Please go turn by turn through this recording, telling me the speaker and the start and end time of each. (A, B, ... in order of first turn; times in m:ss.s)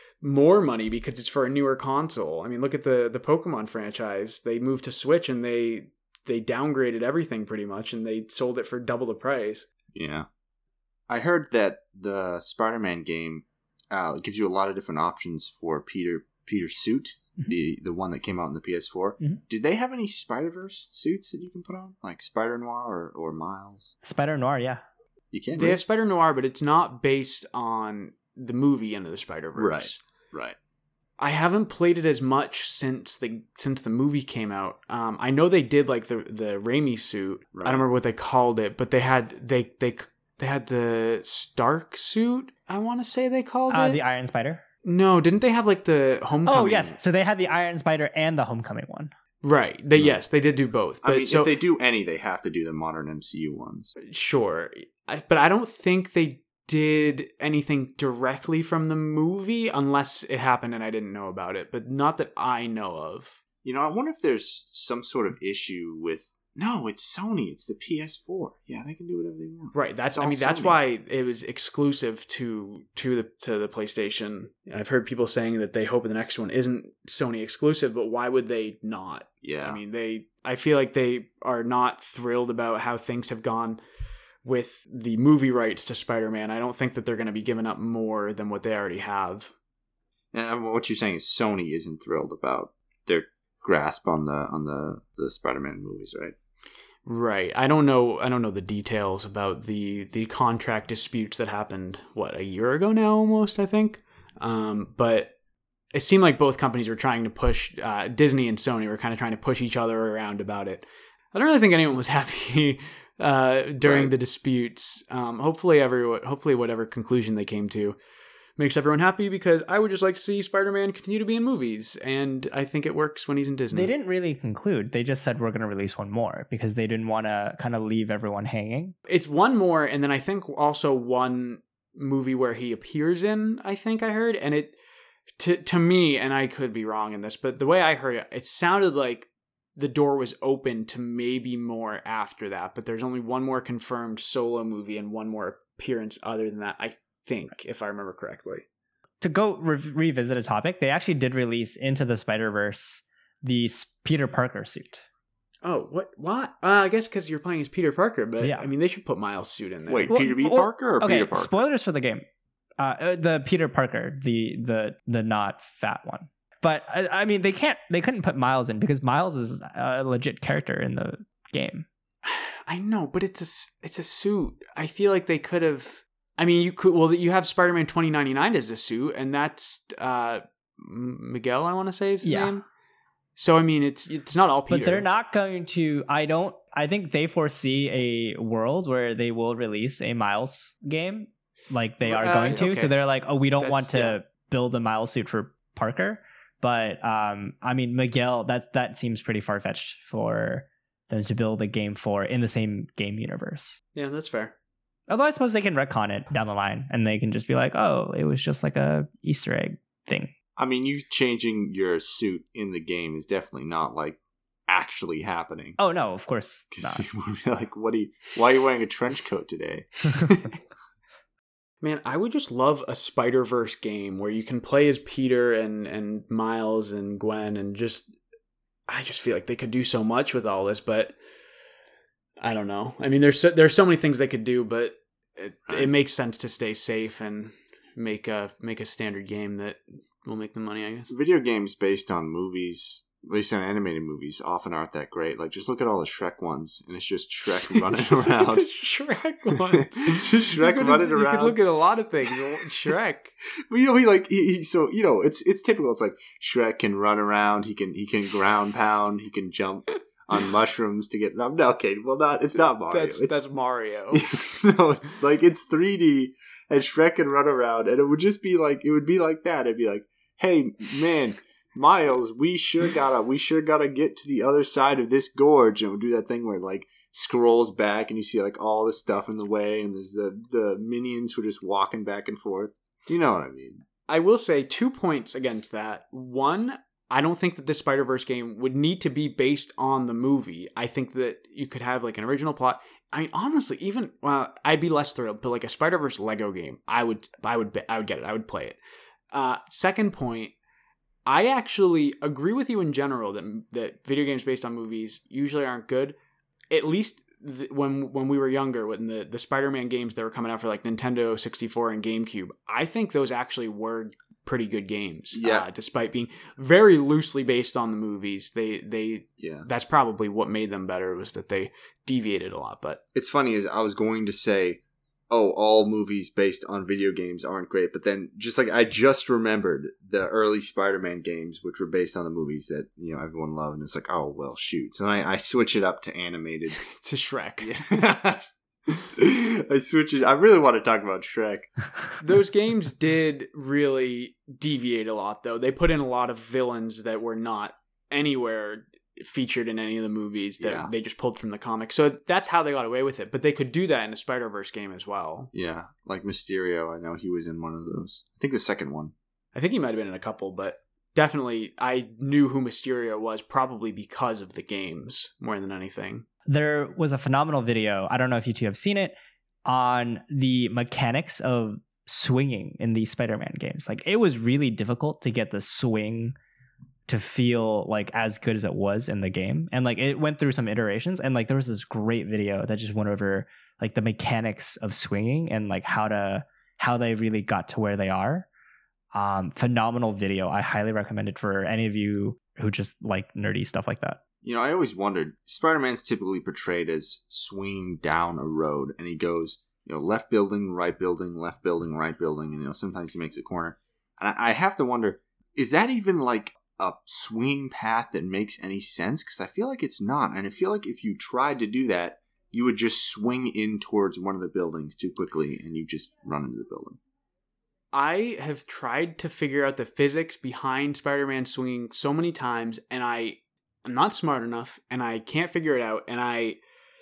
0:00.2-0:09.7 A
0:09.9-0:10.3 B
0:11.1-0:24.0 B
0:24.0-0:24.8 C
0:25.3-0:25.8 B
0:25.5-0:30.0 A
0:29.6-0:30.6 B
0:31.2-0:44.0 A
0:37.5-0:37.8 B
0:43.7-0:44.6 C
0:44.8-0:47.0 A
0:46.4-0:49.1 C
0:49.4-0:51.5 A
0:51.0-0:53.9 B
0:54.0-1:03.4 A
1:03.6-1:10.8 B
1:09.7-1:23.8 A
1:19.4-1:19.8 B
1:24.4-1:29.5 A
1:30.3-1:36.3 B
1:37.0-1:45.3 A
1:45.9-1:58.0 A
1:53.8-1:54.1 B
1:58.6-2:03.9 A
2:03.7-2:08.9 C
2:09.1-2:14.8 A
2:15.4-2:28.6 A
2:29.2-2:35.0 C
2:35.6-2:40.2 A
2:39.9-2:41.6 B
2:40.1-2:42.2 C
2:42.8-2:51.8 C
2:52.2-3:02.6 A
3:02.2-3:02.5 C
3:03.4-3:05.0 A
3:04.7-3:23.8 C
3:12.0-3:12.9 A
3:13.6-3:14.2 A
3:23.9-3:24.5 A
3:25.1-3:30.3 C
3:30.6-3:35.8 B
3:35.8-3:37.0 C
3:36.7-3:40.1 B
3:41.8-3:48.1 A
3:48.9-3:51.1 A
3:52.4-4:01.1 A
4:01.1-4:08.7 B
4:07.6-4:13.3 A
4:09.7-4:11.6 B
4:13.7-4:23.4 B
4:22.9-4:24.2 A
4:24.1-4:43.8 B
4:44.1-4:58.8 A
4:59.3-5:00.5 A
5:01.2-5:06.1 A
5:06.7-5:23.0 A
5:15.3-5:15.7 B
5:19.4-5:19.7 B
5:23.1-5:36.8 B
5:36.8-5:38.1 A
5:37.6-5:38.5 B
5:39.1-5:41.9 B
5:42.2-5:55.5 A
5:50.6-5:50.9 B
5:55.5-5:59.1 B
5:59.5-6:06.2 A
6:06.5-6:09.1 C
6:09.6-6:16.3 C
6:17.1-6:28.5 C
6:29.1-6:34.2 C
6:34.4-6:57.0 B
6:57.9-7:06.6 A